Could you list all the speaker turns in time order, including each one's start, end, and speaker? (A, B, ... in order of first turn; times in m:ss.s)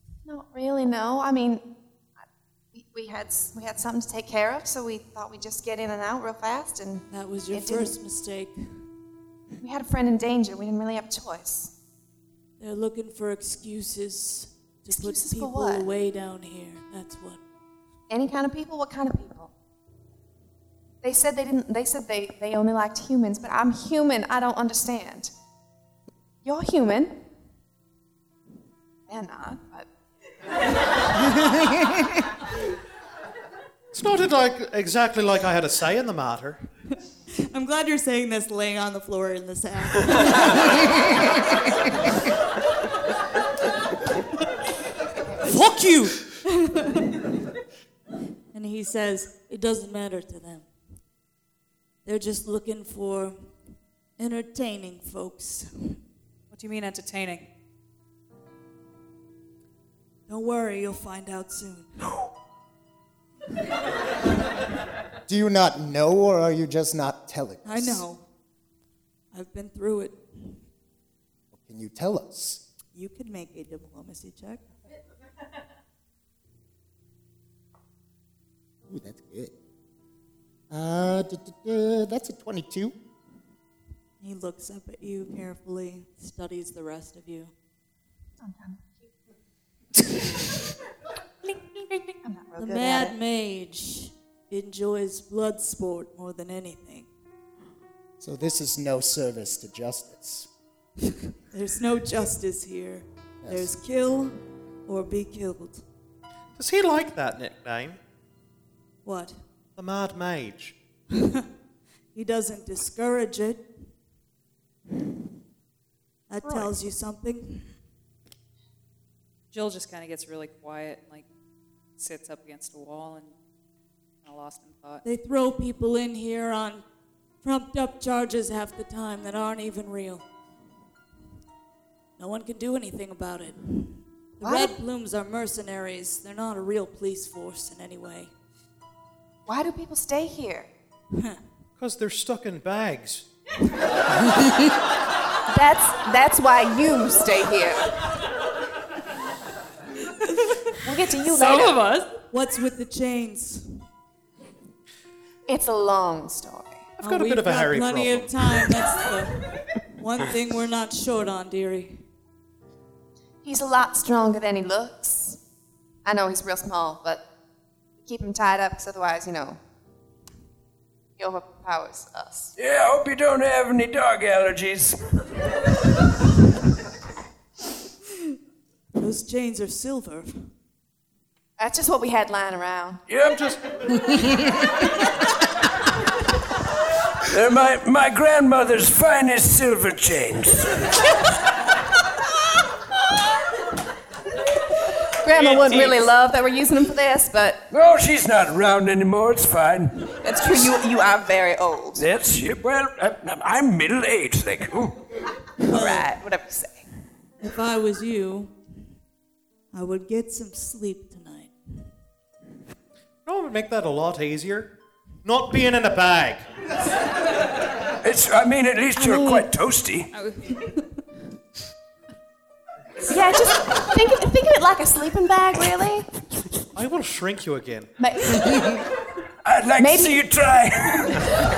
0:00.2-0:01.6 A
0:02.7-0:07.9 A
0:07.1-0:08.6 B
0:09.6-0:11.7 A
0:12.6-0:17.4 B
0:14.9-0:15.8 A
0:18.1-0:19.5 A
0:21.0-0:25.3 A
0:26.4-0:27.2 A
0:29.1-0:29.9 A
0:33.9-0:36.7 C
0:37.4-0:40.5 B
0:45.4-0:46.2 D
0:46.4-0:47.2 B
0:48.5-0:50.6 B
0:52.0-0:53.5 B
0:54.2-0:56.0 B
0:56.5-0:57.4 D
1:00.3-1:02.1 B
1:05.3-1:08.0 E
1:07.6-1:08.2 B
1:09.3-1:10.6 B
1:11.5-1:12.6 E
1:12.9-1:14.6 B
1:18.9-1:19.5 E
1:20.7-1:22.9 E
1:24.2-1:27.5 B
1:28.4-1:28.8 A
1:31.5-1:33.2 A
1:32.6-1:37.1 B
1:38.2-1:40.5 E
1:41.5-1:45.8 B
1:43.4-1:43.7 E
1:46.6-1:48.0 C
1:49.0-1:49.4 B
1:49.8-1:50.7 C
1:51.1-1:51.4 B
1:52.1-1:53.6 B
1:56.3-1:57.7 B
1:56.4-1:56.7 D
1:59.5-2:01.2 D
2:02.0-2:03.3 D
2:04.2-2:05.0 D
2:05.0-2:06.8 B
2:07.4-2:10.2 B
2:12.2-2:18.3 B
2:14.4-2:14.7 A
2:19.5-2:20.7 A
2:21.8-2:23.2 C
2:25.5-2:27.8 A
2:30.8-2:31.8 A
2:31.2-2:32.1 D
2:32.3-2:33.8 B
2:35.5-2:36.9 A
2:37.0-2:38.5 C
2:37.0-2:42.0 B
2:43.4-2:45.4 A
2:46.0-2:47.2 A
2:48.0-2:49.6 A
2:51.2-2:52.5 A
2:52.6-2:55.0 F
2:59.0-3:00.5 B
3:01.6-3:03.0 A
3:03.1-3:04.4 F
3:07.3-3:10.8 F
3:15.1-3:17.6 A
3:17.7-3:20.1 F
3:20.1-3:22.0 A
3:22.0-3:25.0 F
3:25.6-3:26.8 A
3:25.7-3:26.0 B
3:27.4-3:28.5 B
3:29.7-3:31.5 B
3:33.2-3:34.7 C
3:35.2-3:36.4 C
3:38.0-3:40.1 F
3:39.0-3:39.4 A
3:40.1-3:40.6 D
3:43.0-3:46.1 A
3:46.7-3:47.9 C
3:48.0-3:48.8 A
3:49.4-3:51.4 F
3:49.8-3:50.3 A